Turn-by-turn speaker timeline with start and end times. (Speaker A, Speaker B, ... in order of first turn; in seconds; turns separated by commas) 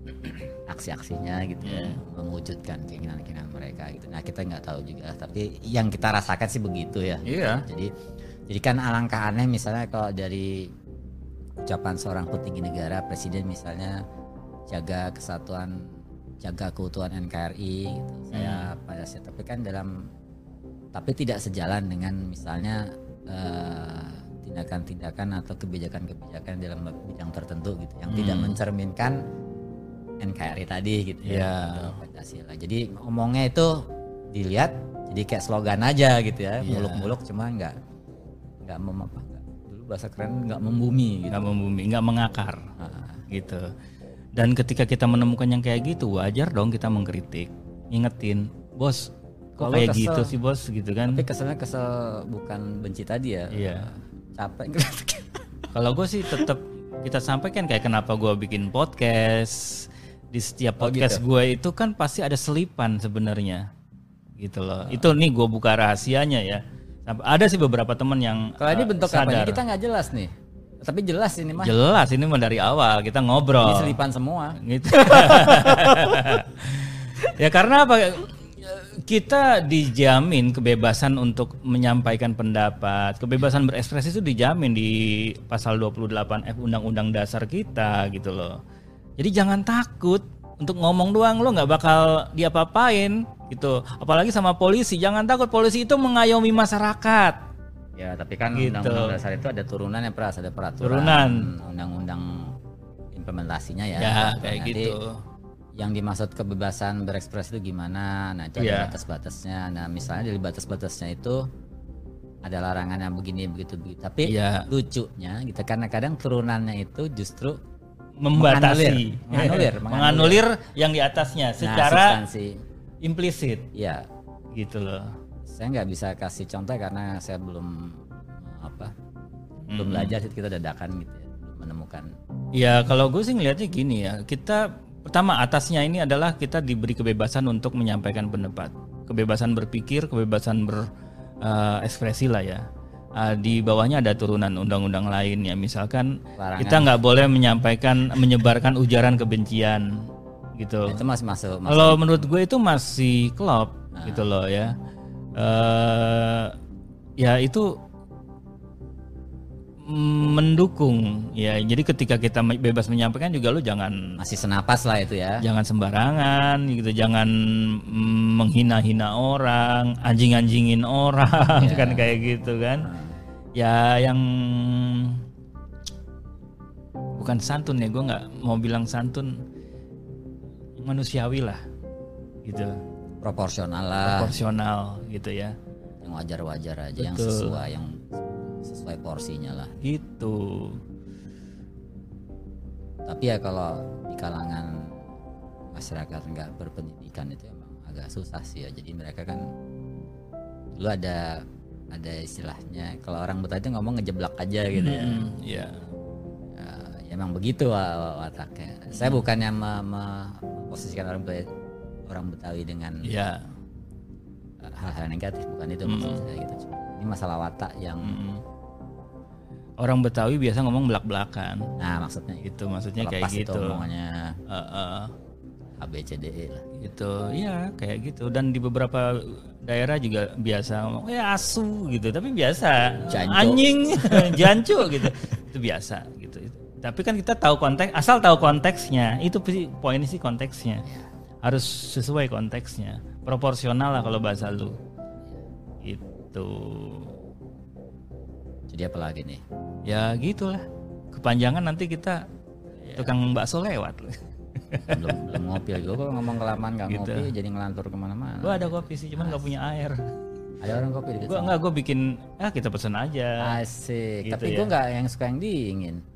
Speaker A: 0.1-7.9, Speaker B: 1.6-1.9, Speaker B: 7.2-7.6, Speaker A: 8.5-10.7, Speaker A: 11.6-13.9, Speaker A: 14.7-15.8, Speaker A: 16.4-19.9, Speaker B: 18.3-18.7, Speaker A: 20.9-29.2, Speaker B: 28.1-28.6, Speaker A: 30.2-33.7, Speaker B: 31.2-31.9, Speaker A: 34.3-37.7, Speaker B: 36.6-37.1, Speaker A: 38.6-41.5, Speaker B: 41.3-42.6, Speaker A: 42.8-43.2, Speaker B: 43.3-43.7, Speaker B: 44.3-51.2, Speaker A: 49.6-50.3, Speaker A: 51.1-55.4, Speaker B: 53.5-53.9, Speaker B: 55.7-63.6, Speaker A: 60.8-61.2, Speaker B: 64.4-69.6, Speaker A: 68.6-70.3, Speaker A: 70.8-71.8, Speaker B: 71.6-74.0, Speaker A: 73.6-74.6, Speaker B: 74.6-88.6, Speaker A: 75.1-75.9, Speaker B: 89.2-97.4, Speaker A: 98.0-102.3, Speaker B: 98.5-99.2, Speaker B: 100.8-101.5, Speaker A: 103.1-105.0, Speaker B: 104.0-105.2, Speaker A: 105.8-111.4, Speaker B: 108.6-108.9, Speaker A: 112.4-117.6, Speaker B: 114.2-114.7, Speaker B: 118.2-122.2, Speaker A: 118.3-120.4, Speaker A: 121.6-122.5, Speaker B: 123.0-123.7, Speaker A: 123.7-124.0, Speaker B: 124.5-125.1, Speaker A: 125.5-128.9, Speaker B: 129.7-130.1, Speaker A: 129.7-132.1, Speaker B: 132.5-140.9, Speaker B: 141.4-142.6, Speaker B: 143.2-151.0, Speaker A: 146.3-146.9, Speaker A: 150.8-152.3, Speaker B: 151.7-154.8, Speaker A: 153.9-154.3, Speaker B: 155.3-156.5, Speaker B: 157.2-157.7, Speaker B: 159.8-164.1, Speaker A: 164.2-165.4, Speaker B: 165.4-172.8, Speaker A: 171.6-172.1, Speaker A: 172.8-173.2, Speaker B: 173.5-175.2, Speaker B: 177.1-179.4, Speaker B: 180.8-181.6, Speaker B: 182.4-182.7, Speaker A: 183.2-184.3, Speaker B: 184.0-185.5, Speaker A: 186.0-189.7, Speaker B: 187.0-187.6, Speaker B: 189.8-190.8, Speaker A: 193.1-194.9, Speaker A: 195.7-199.4, Speaker A: 200.8-201.3, Speaker A: 201.9-205.3, Speaker B: 204.7-205.8, Speaker A: 206.5-211.4, Speaker A: 212.1-213.1, Speaker B: 213.0-213.4, Speaker A: 214.6-218.2, Speaker B: 215.8-216.2, Speaker B: 218.1-218.4, Speaker B: 219.8-221.7, Speaker A: 221.8-222.4, Speaker B: 222.4-223.8, Speaker A: 223.0-224.4, Speaker B: 224.5-225.1, Speaker A: 225.8-226.7, Speaker B: 226.8-240.8, Speaker A: 233.1-235.1, Speaker B: 241.4-244.8, Speaker B: 245.8-247.1, Speaker A: 248.7-249.4, Speaker B: 249.8-252.2, Speaker B: 252.9-254.2, Speaker B: 254.7-255.4, Speaker A: 254.9-259.5, Speaker B: 256.9-257.3, Speaker B: 258.4-260.0, Speaker A: 260.6-261.6, Speaker B: 261.3-263.6, Speaker A: 263.4-266.0, Speaker B: 264.2-264.7